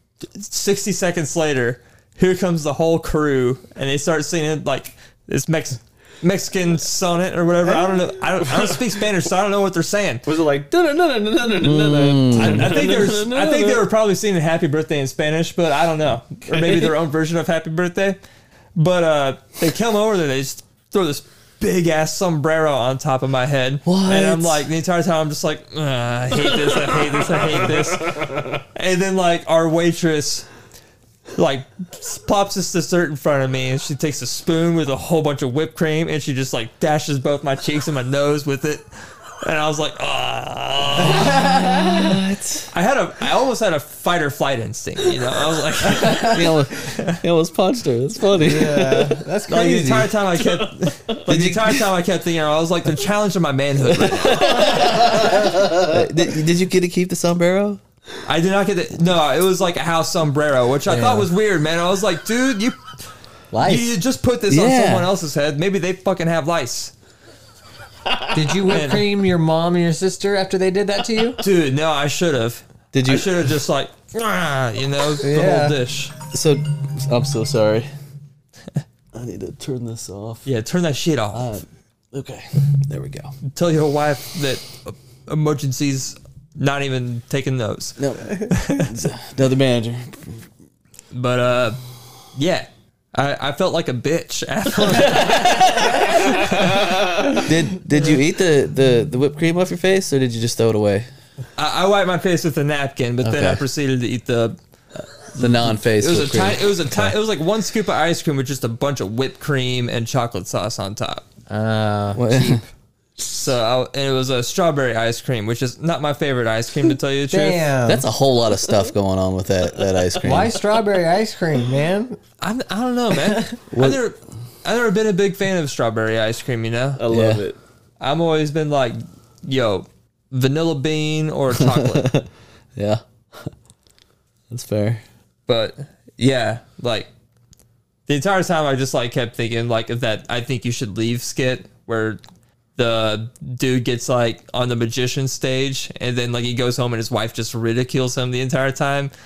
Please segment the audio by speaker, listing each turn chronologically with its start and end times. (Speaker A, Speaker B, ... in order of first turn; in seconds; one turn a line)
Speaker A: 0.3-10.2
Speaker B: 7.6-8.8
Speaker B: 10.2-13.8
Speaker C: 11.6-12.7
Speaker A: 12.3-18.2
Speaker B: 16.4-16.9
Speaker A: 18.7-30.5
Speaker C: 23.8-24.6
Speaker B: 27.6-28.4
Speaker A: 31.4-38.9
Speaker A: 39.4-41.5
Speaker C: 41.1-42.7
Speaker D: 41.4-41.7
Speaker A: 42.7-47.2
Speaker C: 46.0-49.2
Speaker D: 46.0-46.3
Speaker D: 48.4-50.1
Speaker A: 49.5-54.9
Speaker B: 50.4-51.2
Speaker C: 51.2-51.8
Speaker C: 53.8-57.8
Speaker A: 58.2-62.9
Speaker D: 60.9-61.3
Speaker D: 63.5-63.9
Speaker A: 63.6-66.9
Speaker C: 64.5-65.1
Speaker D: 68.3-71.4
Speaker A: 68.7-69.0
Speaker A: 71.4-76.1
Speaker C: 72.9-73.5
Speaker D: 75.2-75.8
Speaker C: 76.3-77.9
Speaker C: 79.1-80.5
Speaker A: 80.4-81.6
Speaker C: 81.3-83.3
Speaker A: 83.5-89.0
Speaker C: 88.0-90.4
Speaker A: 91.1-91.8
Speaker A: 92.3-97.0
Speaker C: 97.4-101.1
Speaker A: 101.6-104.6
Speaker C: 103.2-103.6
Speaker C: 105.0-107.1
Speaker A: 105.9-111.2
Speaker D: 111.5-112.6
Speaker C: 112.1-112.6
Speaker A: 113.2-117.7
Speaker D: 117.3-118.1
Speaker C: 117.8-120.6
Speaker D: 120.2-122.2
Speaker A: 122.4-127.0
Speaker C: 123.7-124.0
Speaker B: 127.0-127.6
Speaker C: 127.1-127.4
Speaker A: 128.0-132.1
Speaker C: 131.5-133.5
Speaker C: 134.5-135.0
Speaker A: 135.5-137.1
Speaker A: 138.1-142.2
Speaker A: 142.8-149.1